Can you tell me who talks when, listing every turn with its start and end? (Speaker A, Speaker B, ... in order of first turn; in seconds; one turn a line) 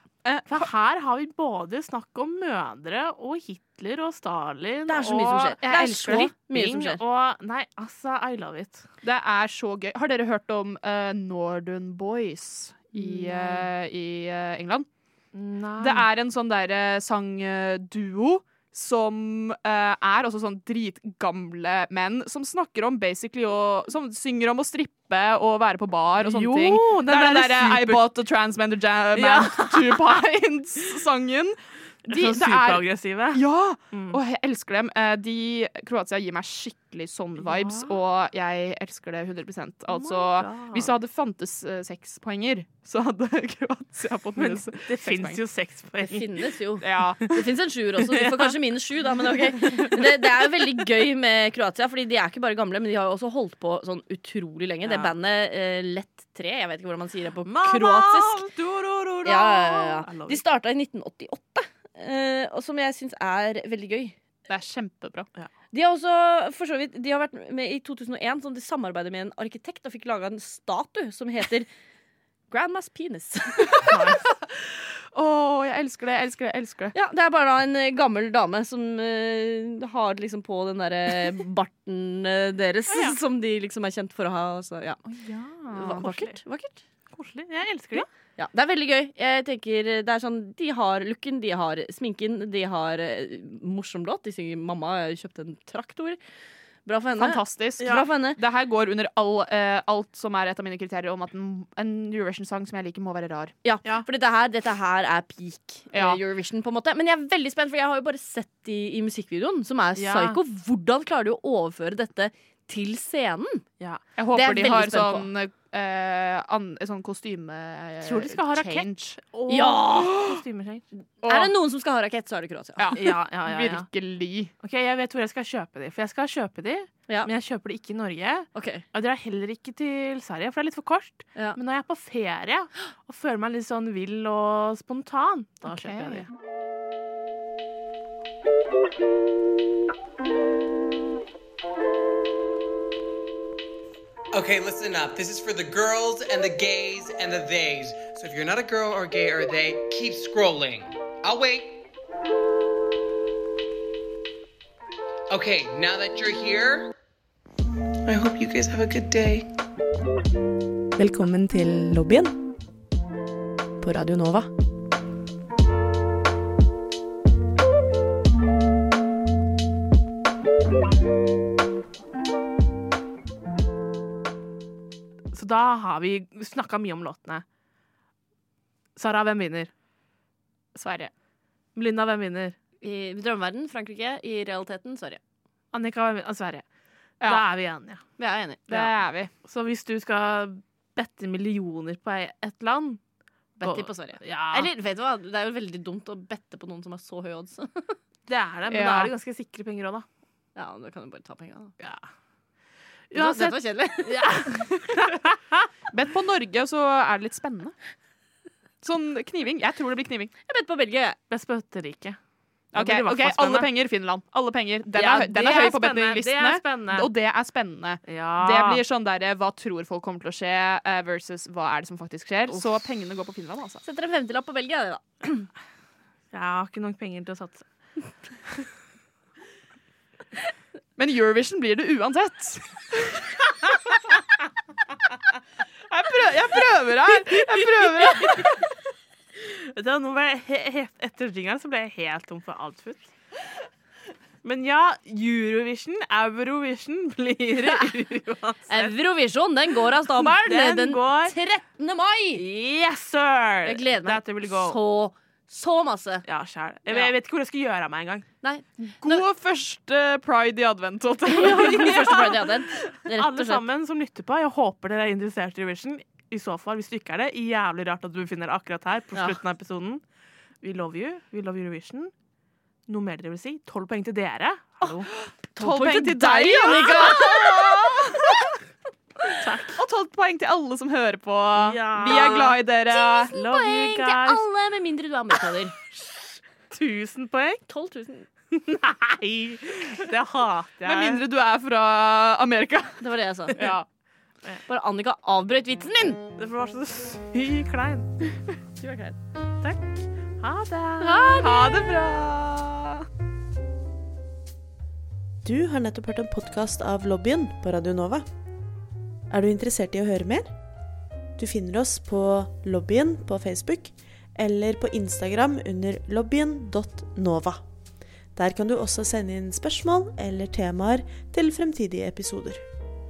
Speaker A: 0.2-0.7
Speaker B: 0.5-8.8
Speaker C: 4.9-7.0
Speaker A: 5.6-6.3
Speaker A: 9.0-14.9
Speaker B: 13.0-13.6
Speaker B: 15.3-16.1
Speaker A: 15.8-45.4
Speaker B: 26.2-28.1
Speaker B: 29.1-30.2
Speaker B: 32.1-34.2
Speaker B: 37.4-37.9
Speaker B: 39.9-40.9
Speaker B: 44.4-46.4
Speaker C: 46.0-58.5
Speaker A: 46.8-47.3
Speaker B: 48.0-48.5
Speaker B: 49.3-50.2
Speaker B: 54.8-55.1
Speaker B: 57.5-60.4
Speaker C: 59.2-64.2
Speaker A: 64.5-65.3
Speaker C: 65.7-71.7
Speaker C: 72.5-73.9
Speaker A: 73.8-76.9
Speaker B: 73.9-74.2
Speaker C: 76.9-85.0
Speaker B: 82.9-83.2
Speaker A: 85.0-86.0
Speaker C: 85.7-86.8
Speaker B: 85.9-86.3
Speaker B: 87.1-88.1
Speaker C: 88.4-96.2
Speaker C: 96.8-98.4
Speaker A: 97.2-103.5
Speaker B: 97.8-98.0
Speaker C: 103.6-113.7
Speaker A: 105.9-106.2
Speaker B: 110.0-110.4
Speaker A: 114.2-119.2
Speaker C: 114.3-115.3
Speaker B: 118.0-120.8
Speaker C: 119.5-120.2
Speaker A: 120.0-120.4
Speaker C: 121.2-122.9
Speaker A: 121.2-121.5
Speaker A: 122.8-124.5
Speaker B: 123.0-123.9
Speaker B: 124.6-136.3
Speaker C: 128.5-128.8
Speaker A: 135.6-136.2
Speaker D: 144.3-151.8
Speaker D: 155.3-156.9
Speaker E: 161.0-162.4
Speaker E: 163.8-164.5
Speaker B: 175.3-177.4
Speaker B: 178.9-179.7
Speaker A: 180.7-181.1
Speaker B: 181.7-182.6
Speaker C: 182.8-185.2
Speaker B: 185.7-186.6
Speaker B: 187.2-188.0
Speaker C: 188.2-188.9
Speaker A: 188.7-189.3
Speaker B: 189.4-193.0
Speaker C: 193.6-197.9
Speaker B: 193.6-194.7
Speaker B: 198.3-200.0
Speaker A: 198.7-199.1
Speaker C: 200.5-201.7
Speaker B: 203.1-205.7
Speaker C: 203.1-204.4
Speaker A: 205.9-207.7
Speaker A: 208.8-210.3
Speaker C: 210.5-211.2
Speaker B: 211.3-212.2
Speaker B: 212.7-213.7
Speaker A: 212.7-223.8
Speaker B: 214.9-217.1
Speaker B: 218.1-218.8
Speaker C: 223.8-225.5
Speaker B: 226.3-227.7
Speaker A: 231.0-233.7
Speaker A: 235.9-238.6
Speaker B: 238.1-238.5
Speaker B: 239.3-243.1
Speaker B: 244.4-248.9
Speaker C: 247.6-247.9
Speaker C: 248.7-252.4
Speaker B: 250.0-251.3
Speaker B: 252.3-254.8
Speaker C: 253.6-256.2
Speaker B: 256.2-258.2
Speaker C: 256.9-257.1
Speaker C: 258.4-259.2
Speaker A: 258.8-262.1
Speaker C: 261.3-263.6
Speaker B: 261.3-270.0
Speaker B: 270.6-272.1
Speaker B: 272.9-275.1
Speaker A: 275.5-278.4
Speaker C: 275.6-278.1
Speaker B: 276.6-277.4
Speaker B: 279.3-279.8
Speaker A: 279.8-283.3
Speaker B: 281.6-282.5
Speaker C: 281.8-285.8
Speaker B: 283.3-284.4
Speaker B: 286.7-287.6
Speaker C: 287.7-288.3
Speaker B: 288.5-291.2
Speaker A: 290.8-293.0
Speaker C: 293.0-293.6
Speaker A: 293.6-293.9
Speaker C: 294.7-296.2
Speaker B: 296.4-298.2
Speaker C: 298.8-299.2
Speaker B: 299.6-301.7
Speaker C: 301.0-301.8
Speaker A: 301.4-302.9
Speaker E: 305.4-308.2
Speaker E: 309.3-310.5
Speaker E: 311.4-317.6
Speaker E: 318.3-322.6